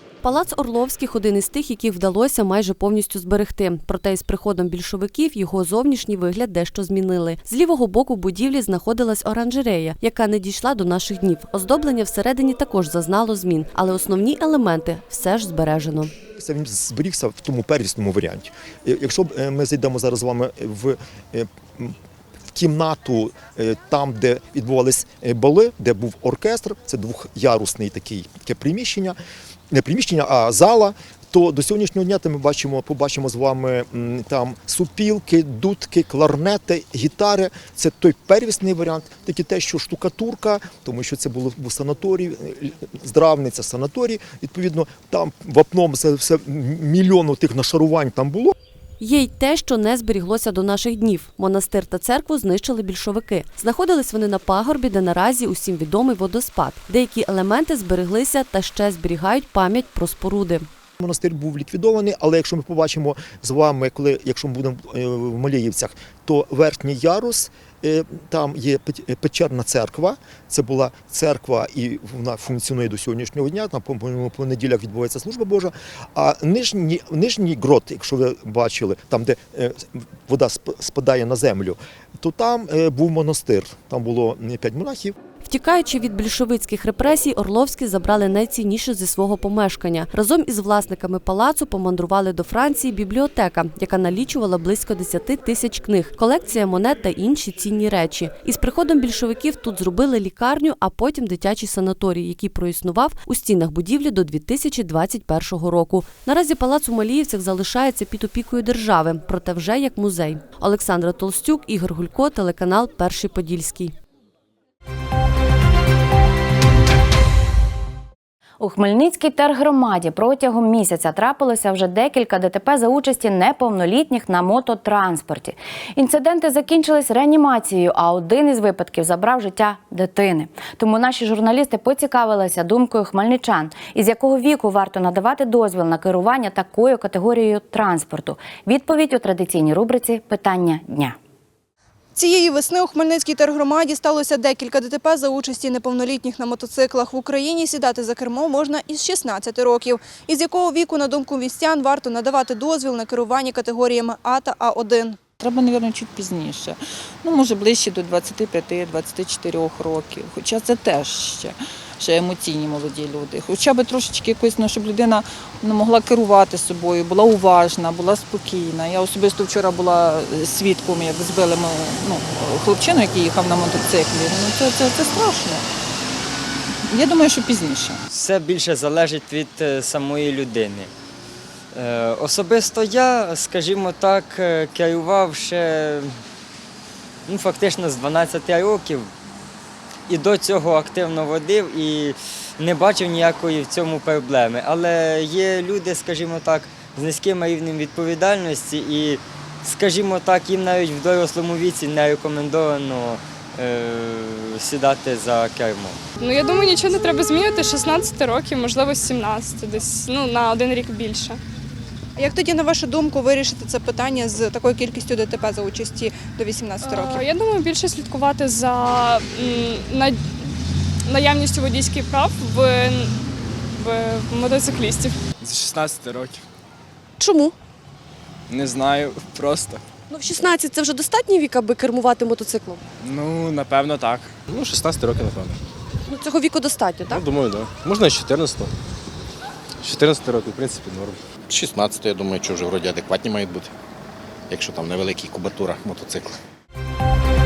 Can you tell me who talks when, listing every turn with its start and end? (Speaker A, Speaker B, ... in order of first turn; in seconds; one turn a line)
Speaker A: 0.2-16.1
Speaker B: 16.4-21.9
Speaker B: 22.5-29.2
Speaker B: 29.7-48.5
Speaker A: 49.0-60.6
Speaker B: 61.0-85.1
Speaker A: 85.4-113.9
Speaker C: 118.6-141.2
Speaker D: 142.1-155.2
Speaker E: 155.4-175.6
Speaker E: 176.9-178.0
Speaker F: 178.1-180.9
Speaker F: 181.7-186.1
Speaker F: 187.3-189.1
Speaker F: 190.1-206.0
Speaker G: 206.2-211.4
Speaker D: 212.2-217.3
Speaker G: 216.8-220.3
Speaker G: 221.1-223.1
Speaker G: 223.8-225.2
Speaker H: 225.4-226.4
Speaker H: 228.5-229.8
Speaker H: 233.0-235.5
Speaker H: 237.1-238.7
Speaker H: 239.8-241.2
Speaker I: 241.5-243.7
Speaker I: 244.5-246.4